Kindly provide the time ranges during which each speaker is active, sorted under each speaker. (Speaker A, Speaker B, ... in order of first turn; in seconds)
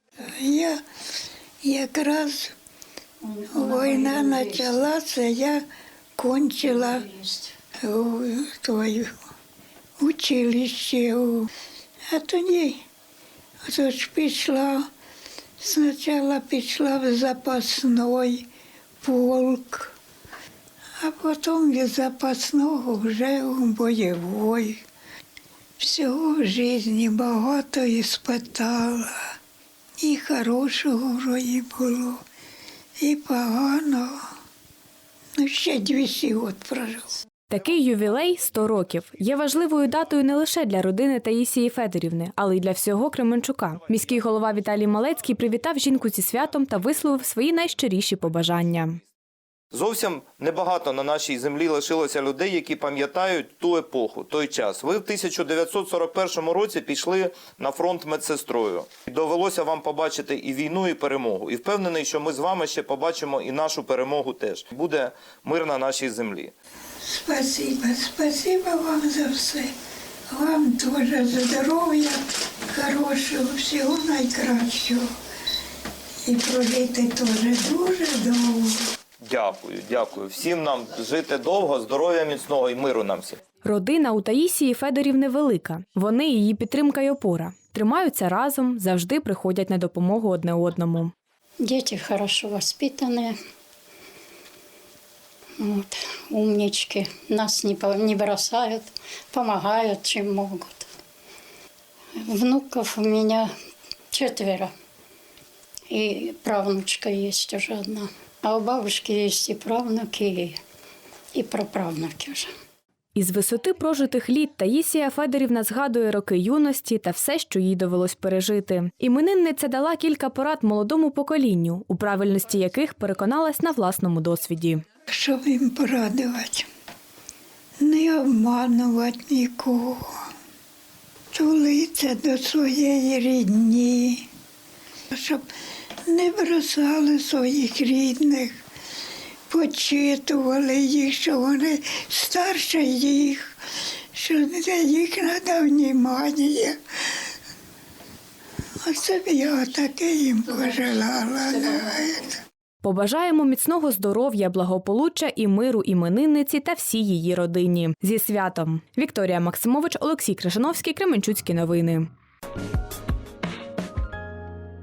Speaker A: 0.3-0.8, 1.6-2.5, 3.5-5.6, 6.2-7.0, 7.8-9.1, 10.0-11.5, 12.1-12.8, 13.6-14.9, 15.6-18.4, 19.0-19.9, 21.0-24.8, 25.8-29.1, 30.0-32.2, 33.0-34.2, 35.4-37.2, 67.0-69.7, 70.3-75.1, 76.2-78.8, 125.1-126.7, 127.8-130.1, 131.3-134.2, 135.1-135.4, 136.1-138.6, 139.5-143.5, 144.1-146.8, 148.8-152.3
Speaker B: 3.2-4.8, 6.6-7.5, 91.6-93.4, 95.6-100.9, 102.2-103.5, 104.1-104.7, 105.9-110.6, 111.3-112.5
Speaker C: 37.5-49.0, 83.6-91.1, 113.2-124.8, 152.8-162.1
Speaker D: 49.7-66.5, 79.2-83.4